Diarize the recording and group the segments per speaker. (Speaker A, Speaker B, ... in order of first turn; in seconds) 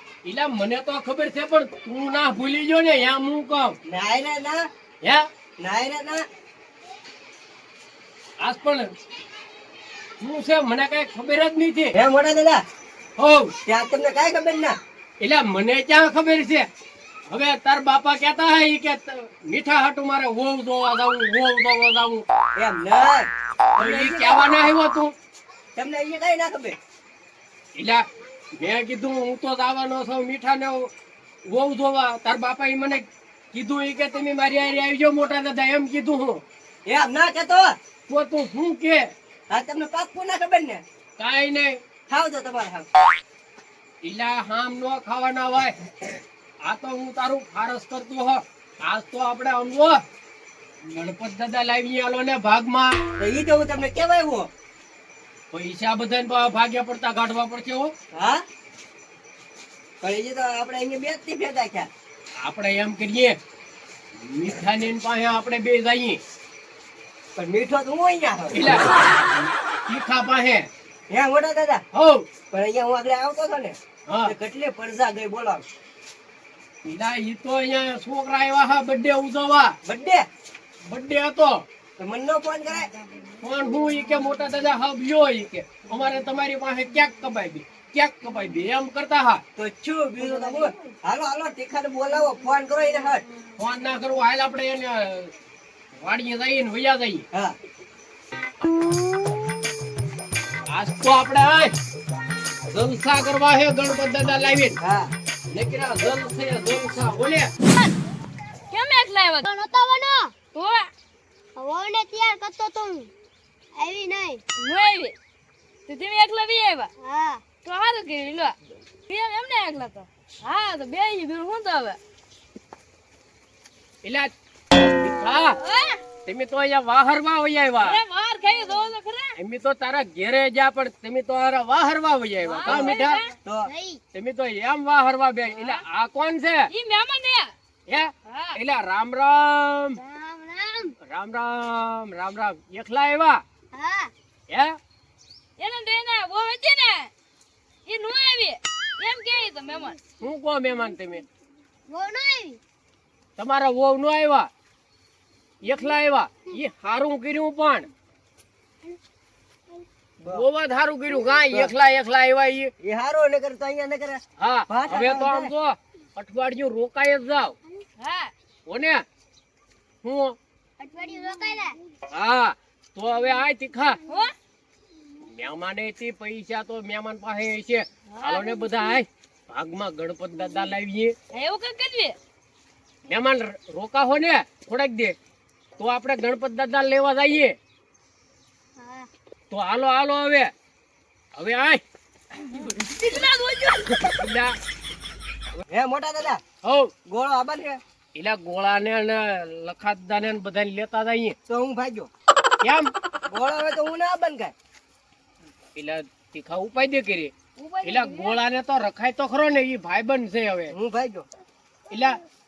Speaker A: 0.2-3.8, 8.4-8.8, 10.2-11.9, 13.2-13.5, 15.2-16.7, 17.3-22.2, 23.7-25.1, 27.8-28.0, 28.6-30.9, 31.5-36.4, 38.1-39.1, 41.2-41.8, 44.0-45.7, 46.6-50.0, 50.9-52.9, 55.5-57.9, 62.4-63.4, 64.2-66.2, 68.5-68.9, 69.9-70.7, 71.9-72.2, 74.1-74.3, 76.8-79.7, 80.8-81.6, 83.4-89.4, 93.6-95.3, 96.0-97.2, 100.7-101.7, 102.7-104.8, 105.5-107.5, 124.0-125.5, 126.2-128.0, 129.4-133.2, 134.1-136.7, 137.9-140.0, 141.0-143.4, 144.5-144.8, 150.2-151.2, 153.4-154.5, 155.6-157.9, 160.3-162.7, 164.4-167.5, 168.7-169.0, 170.0-170.3, 172.1-174.0, 175.2-181.1, 183.1-185.1, 185.8-187.5, 189.5-190.5, 191.4-191.8, 194.0-194.5, 196.6-196.9, 198.1-201.3, 202.6-202.9, 205.8-207.3, 207.8-210.7, 211.9-212.2
Speaker B: 3.9-4.6, 5.6-6.2, 11.9-12.6, 13.7-14.7, 22.6-24.5, 25.8-26.8, 36.9-37.7, 39.5-40.8, 42.1-42.9, 53.2-54.5, 58.1-58.4, 60.0-61.9, 67.3-68.7, 71.1-71.8, 72.5-75.6, 79.8-80.2, 82.0-82.9, 89.6-93.2, 104.8-105.1, 132.6-133.7, 162.8-165.5, 195.7-196.4, 197.1-197.8, 201.5-202.1, 203.3-204.5, 210.7-211.2
Speaker C: 108.7-109.5, 110.5-110.9, 114.6-115.1, 115.9-116.9, 117.6-118.5, 119.1-122.0, 125.6-126.0, 127.8-129.3, 132.4-133.3, 135.6-135.8, 136.7-137.5, 138.2-138.6, 145.6-147.1, 147.8-150.0, 168.0-168.3, 174.1-174.3, 178.1-178.6, 181.3-182.2, 192.4-194.2, 207.6-208.4
Speaker D: 109.4-110.3, 111.6-113.1, 113.8-114.4, 117.0-117.4, 133.6-134.0, 140.0-140.9, 143.7-144.1, 151.9-152.6, 170.8-171.8, 188.8-189.1